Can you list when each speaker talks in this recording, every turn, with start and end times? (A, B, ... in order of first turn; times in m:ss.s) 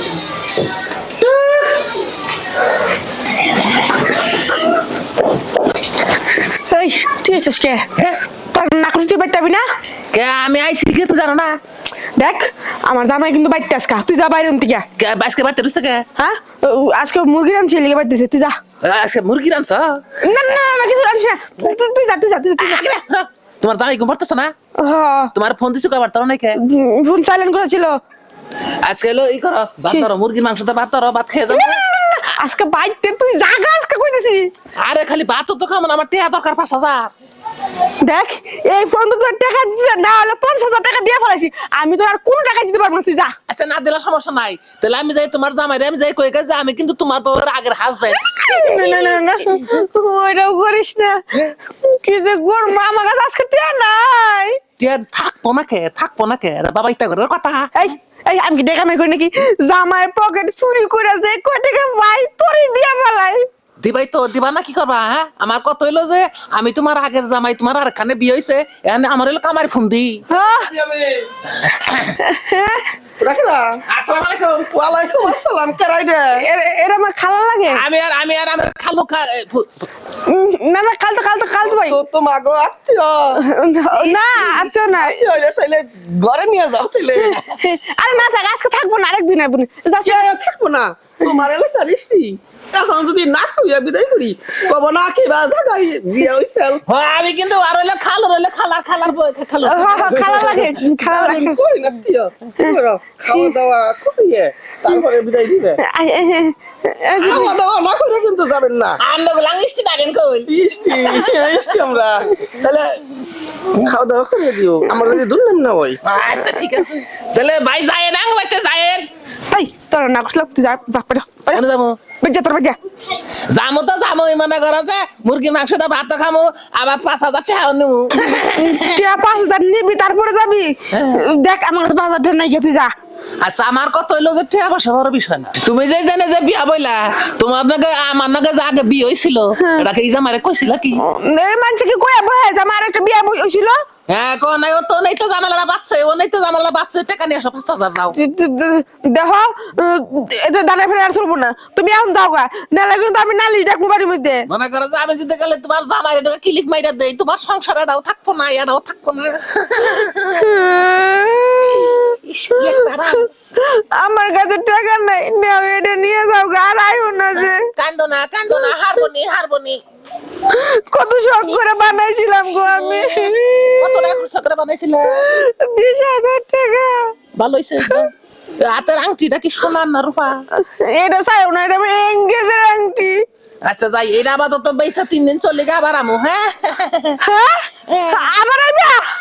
0:01.2-0:01.6 A
0:06.5-0:07.9 B
0:08.5-0:09.6 B
0:10.1-0:11.6 C
0:12.2-0:14.9 B
0:15.0-0:16.1 C
0:16.2-0:18.6 B
0:18.8-0:20.4 C
0:20.2-0:22.9 B
0:22.6-0:24.5 C
0:24.8-0:25.3 B
0:25.4-0:26.6 C
0:26.6-0:28.0 B
0:28.8-0:31.8 C
0:31.5-0:34.5 B
0:34.8-0:37.1 C
0:38.0-0:43.4 B
0:43.5-0:49.6 C
0:48.1-0:54.6 B
0:54.8-0:57.7 C
0:57.7-1:03.5 B
1:03.8-1:10.3 C
1:10.3-1:10.7 B
1:10.8-1:11.3 A
1:11.6-1:12.1 C
1:12.2-1:12.9 B
1:13.2-1:13.8 A
1:13.9-1:14.7 C
1:14.6-1:16.4 A
1:16.4-1:17.8 B
1:17.7-1:19.8 C
1:20.3-1:22.0 B
1:21.6-1:23.4 A
1:23.4-1:25.3 B
1:23.9-1:24.8 C
1:24.9-1:27.4 A
1:27.2-1:30.3 B
1:30.0-1:36.8 A
1:36.8-1:40.7 C
1:39.6-1:41.6 B
1:40.1-1:45.8 A
1:45.8-1:47.5 B
1:47.2-1:47.6 C
1:47.2-1:49.0 A
1:49.0-1:51.6 C
1:50.5-1:53.2 A
1:53.7-1:56.0 A
1:56.0-1:59.1 C
1:59.5-2:01.6 B
2:01.5-2:02.0 C
2:02.2-2:02.8 B
2:03.5-2:09.0 C
2:08.2-2:12.9 B
2:10.9-2:11.2 C
2:13.4-2:21.0 C
2:19.6-2:19.9 B
2:20.9-2:23.8 B
2:24.1-2:28.2 C
2:28.1-2:34.5 B
2:34.5-2:40.5 C
2:40.4-2:47.7 B
2:41.6-2:43.3 C
2:47.5-2:49.8 C
2:50.5-2:54.2 B
2:52.8-2:55.4 C
2:55.1-2:57.1 B
2:57.4-3:00.4 C
3:00.6-3:03.2 B
3:03.6-3:07.2 C
3:07.2-3:09.0 B
3:07.9-3:08.2 C